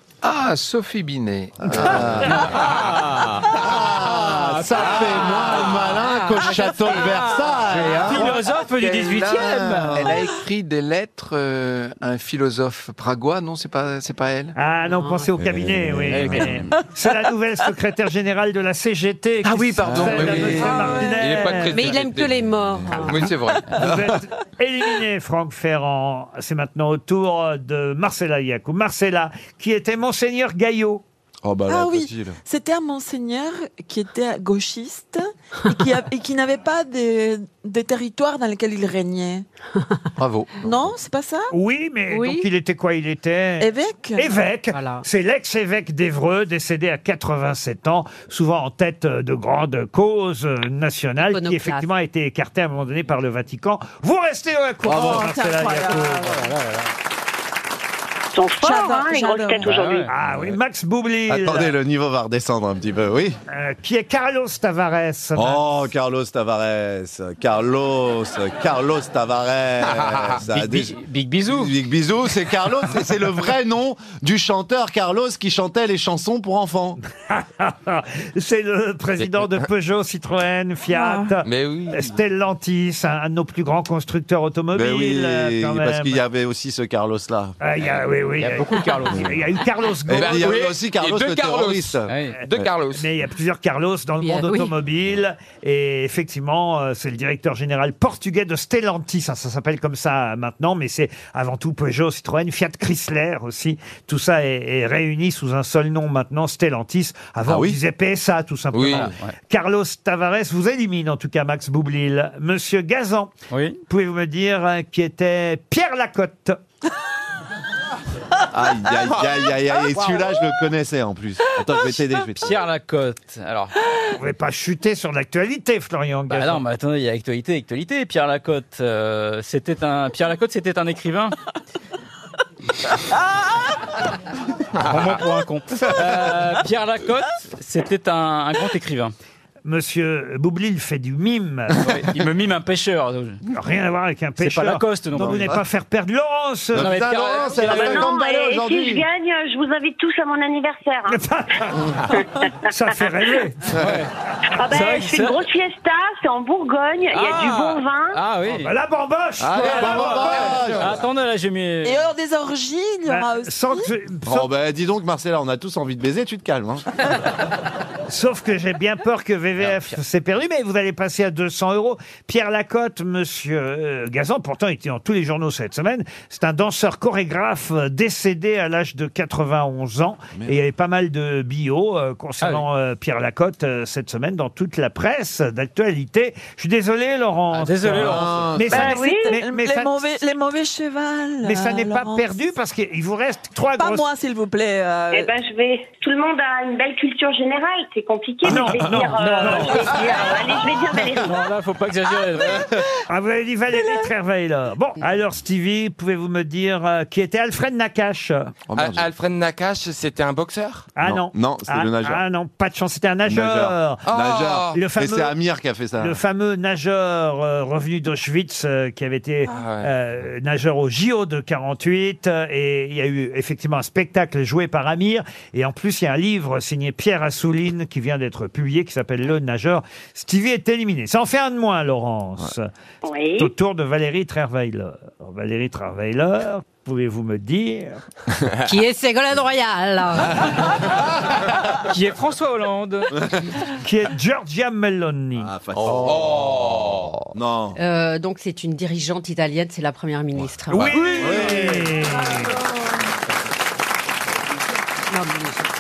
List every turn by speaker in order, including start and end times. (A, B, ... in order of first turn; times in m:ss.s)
0:00.3-0:02.2 A
0:01.6-0:08.4 B
0:02.2-0:10.0 C
0:06.0-0:07.1 D
0:08.0-0:08.3 A
0:09.2-0:10.3 B
0:10.6-0:14.4 A
0:14.6-0:22.0 E
0:14.9-0:15.3 D
0:15.4-0:16.7 B
0:16.1-0:16.6 C
0:19.9-0:20.4 B
0:19.9-0:23.7 F
0:20.3-0:20.9 A
0:20.5-0:21.3 G
0:21.7-0:23.2 D
0:23.2-0:23.6 G
0:23.7-0:31.0 E
0:31.4-0:32.4 B
0:31.7-0:39.5 G
0:40.6-0:41.5 G
0:41.5-0:56.5 E
0:42.1-0:42.5 D
0:43.6-0:44.3 G
0:44.7-0:45.1 D
0:51.2-0:51.9 D
0:54.8-0:56.4 G
0:56.2-0:56.9 C
0:58.3-1:00.1 H
0:58.6-0:59.7 G
0:59.6-1:00.1 C
1:00.1-1:01.7 E
1:01.3-1:03.4 B
1:03.5-1:05.9 E
1:05.4-1:17.0 B
1:09.9-1:10.3 F
1:10.4-1:11.7 C
1:17.3-1:26.2 E
1:19.2-1:19.6 F
1:20.9-1:21.4 G
1:21.4-1:22.1 F
1:24.7-1:27.6 B
1:27.6-1:30.5 E
1:28.4-1:29.4 C
1:30.1-1:32.7 B
1:30.1-1:33.1 F
1:32.1-1:32.4 C
1:32.9-1:53.3 E
1:34.2-1:34.7 D
1:47.4-1:47.8 B
1:48.7-1:49.1 F
1:48.9-1:49.3 C
1:53.5-1:53.8 C
1:53.9-1:56.6 E
1:58.5-2:02.6 B
2:02.4-2:03.8 C
2:04.1-2:06.6 E
2:06.3-2:11.4 C
2:14.8-2:19.1 C
2:19.6-2:21.9 E
2:21.8-2:23.4 C
2:23.5-2:27.0 E
2:24.4-2:25.6 C
2:25.2-2:25.5 B
2:26.7-2:29.0 B
2:26.8-2:28.0 C
2:27.6-2:31.2 H
2:31.1-2:33.8 E
2:33.7-2:34.1 C
2:34.6-2:38.2 H
2:34.7-2:35.4 C
2:37.1-2:38.7 C
2:38.6-2:40.8 E
2:39.4-2:40.9 B
2:39.9-2:42.0 C
2:41.8-2:43.9 G
2:43.1-2:44.5 E
2:44.3-2:46.9 B
2:48.1-3:10.1 E
2:49.6-2:50.0 C
3:02.4-3:02.7 C
3:07.5-3:08.5 C
3:08.0-3:08.8 B
3:08.7-3:12.4 G
3:08.8-3:09.4 H
3:11.4-3:14.1 E
3:13.8-3:15.3 G
3:15.1-3:21.5 H
3:18.5-3:19.9 E
3:19.0-3:20.0 C
3:21.2-3:22.9 C
3:23.1-3:28.5 E
3:28.7-3:29.1 B
3:28.7-3:30.9 F
3:31.0-3:34.0 E
3:31.0-3:32.2 B
3:33.3-3:36.2 B
3:34.1-3:34.8 F
3:34.7-3:35.4 E
3:36.0-3:52.7 E
3:39.5-3:39.9 F
3:53.1-3:53.5 H
3:53.4-3:58.0 E
3:58.6-4:00.6 D
4:01.9-4:03.1 C
4:03.7-4:05.5 E
4:05.4-4:06.6 B
4:05.8-4:07.1 F
4:07.3-4:07.8 B
4:07.8-4:11.5 D
4:10.7-4:12.6 E
4:10.8-4:12.0 B
4:15.1-4:15.7 D